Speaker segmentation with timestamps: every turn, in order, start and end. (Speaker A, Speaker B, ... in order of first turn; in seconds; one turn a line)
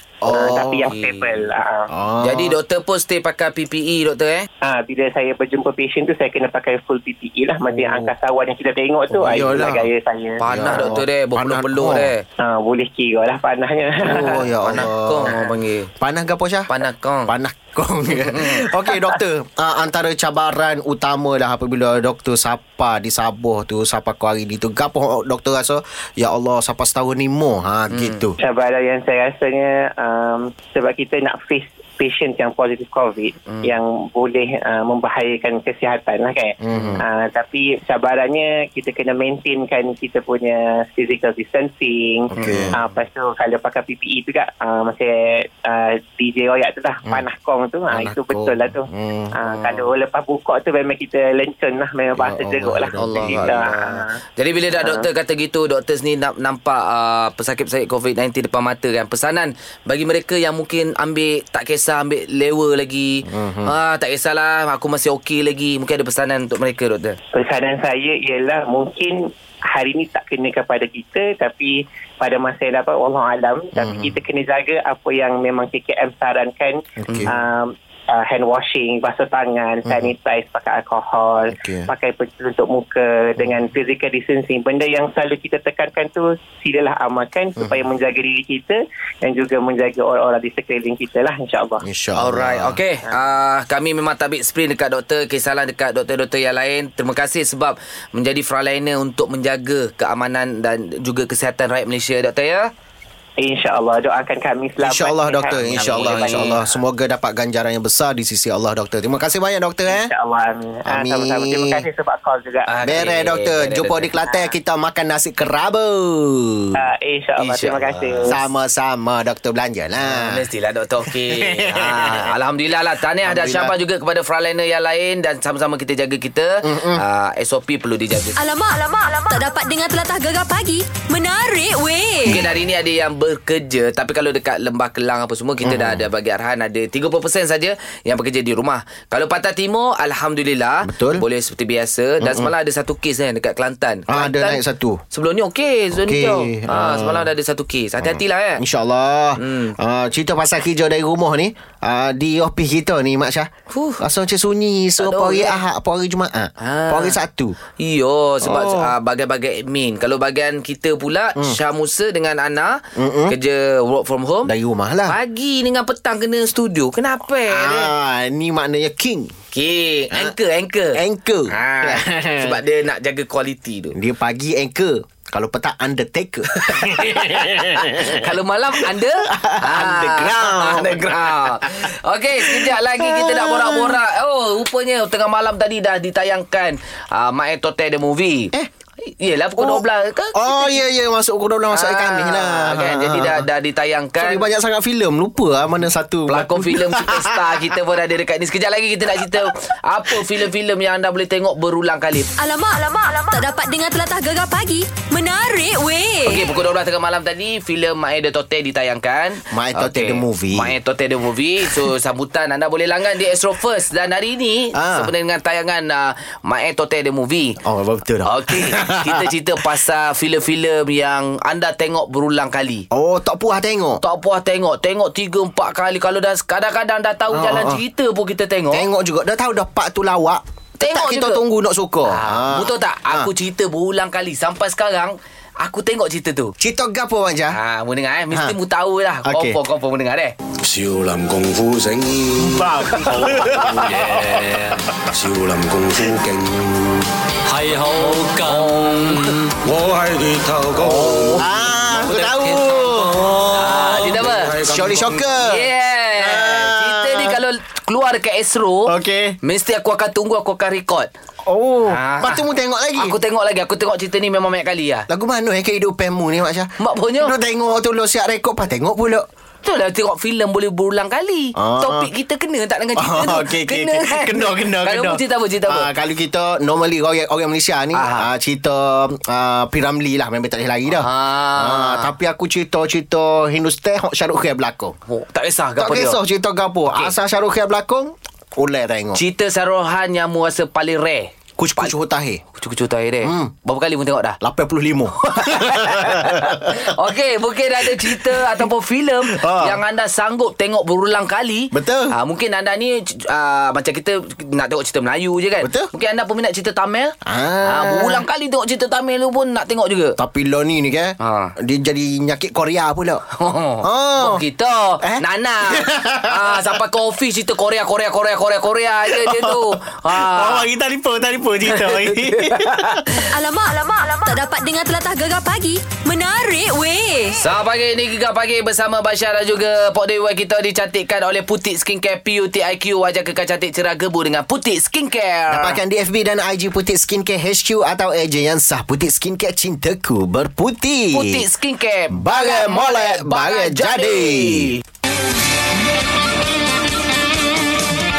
Speaker A: 0.2-0.9
Speaker B: 0.2-1.9
Speaker C: 0.9-1.5
Speaker A: 1.9-2.6
Speaker C: 2.2-4.5
Speaker B: 4.6-10.9
Speaker C: 7.8-8.1
Speaker A: 9.2-9.9
Speaker C: 10.4-12.2
Speaker A: 10.5-12.1
Speaker B: 12.4-15.4
Speaker C: 14.1-15.9
Speaker A: 14.1-15.3
Speaker A: 16.0-16.7
Speaker C: 16.7-17.3
Speaker A: 17.3-28.4
Speaker C: 18.1-18.7
Speaker C: 27.9-28.3
Speaker B: 28.4-54.1
Speaker C: 33.5-33.8
Speaker A: 36.6-37.0
Speaker C: 42.3-42.8
Speaker A: 42.3-42.8
Speaker A: 47.9-49.3
Speaker C: 49.4-49.9
Speaker A: 52.1-53.7
Speaker C: 53.0-67.2
Speaker B: 54.8-55.0
Speaker A: 63.3-63.7
Speaker B: 67.3-91.8
Speaker A: 73.8-74.2
Speaker A: 77.0-77.4
Speaker A: 79.9-80.1
Speaker A: 81.5-81.9
Speaker A: 87.6-87.8
Speaker A: 91.8-92.8
Speaker C: 92.2-102.7
Speaker B: 103.4-106.8
Speaker A: 104.8-110.1
Speaker C: 105.6-106.6
Speaker B: 109.9-113.0
Speaker A: 110.9-111.8
Speaker C: 112.7-114.1
Speaker A: 112.8-116.8
Speaker B: 116.8-118.4
Speaker C: 117.4-118.3
Speaker A: 118.3-120.4
Speaker C: 120.0-128.4
Speaker A: 121.1-122.3
Speaker A: 123.2-123.8
Speaker A: 126.6-127.0
Speaker D: 128.4-132.4
Speaker C: 132.3-144.6
Speaker A: 135.6-136.0
Speaker A: 140.8-141.2
Speaker A: 142.2-142.5
Speaker A: 144.1-145.0
Speaker C: 145.1-148.6
Speaker A: 145.9-147.3
Speaker A: 148.0-157.6
Speaker C: 149.4-149.8
Speaker C: 153.7-154.0
Speaker C: 155.0-155.6
Speaker C: 156.6-157.2
Speaker C: 157.8-164.5
Speaker A: 158.4-158.9
Speaker A: 162.9-163.4
Speaker A: 164.4-165.2
Speaker C: 165.1-167.9
Speaker A: 167.5-169.3
Speaker C: 169.5-171.0
Speaker A: 170.9-172.6
Speaker C: 171.5-174.0
Speaker A: 173.9-181.9
Speaker C: 176.6-188.5
Speaker A: 182.4-184.0
Speaker C: 189.2-190.8
Speaker A: 189.6-193.4
Speaker C: 191.7-194.4
Speaker A: 194.2-197.6
Speaker C: 196.3-202.3
Speaker D: 202.4-206.4
Speaker C: 206.2-217.6
Speaker A: 209.5-210.8
Speaker A: 214.7-215.1
Speaker A: 217.6-219.3
Speaker C: 218.2-222.8
Speaker A: 222.9-224.0
Speaker C: 224.0-228.9
Speaker A: 227.3-227.8
Speaker A: 228.7-233.3
Speaker C: 230.8-231.4
Speaker C: 232.1-236.5
Speaker A: 236.6-237.6
Speaker C: 237.5-240.3
Speaker A: 239.2-239.6
Speaker E: 240.6-255.3
Speaker A: 242.4-244.4
Speaker C: 247.8-249.5
Speaker A: 250.8-253.8
Speaker C: 253.5-254.6
Speaker A: 254.6-257.4
Speaker C: 255.3-261.1
Speaker A: 258.9-259.4
Speaker A: 261.5-263.2
Speaker C: 261.9-262.4
Speaker C: 263.0-265.1
Speaker A: 265.1-269.3
Speaker C: 266.8-267.3
Speaker C: 269.6-275.9
Speaker A: 271.6-272.1
Speaker A: 273.0-285.0
Speaker C: 277.9-278.3
Speaker C: 280.9-282.1
Speaker C: 285.1-286.2
Speaker A: 285.8-289.2
Speaker C: 289.2-291.9
Speaker A: 291.6-292.4
Speaker C: 292.6-294.4
Speaker A: 293.2-293.5
Speaker A: 294.4-296.8
Speaker C: 295.3-310.2
Speaker A: 298.0-298.6
Speaker A: 299.2-299.8
Speaker A: 301.7-302.1
Speaker A: 305.6-305.9
Speaker A: 307.2-308.2
Speaker A: 310.2-313.2
Speaker C: 311.2-311.5
Speaker C: 313.4-320.7
Speaker A: 313.8-314.4
Speaker A: 315.0-316.7
Speaker A: 319.1-323.1
Speaker C: 321.7-323.0
Speaker D: 323.3-327.4
Speaker C: 327.4-335.8
Speaker A: 335.5-341.4
Speaker C: 341.1-344.8
Speaker A: 342.1-344.8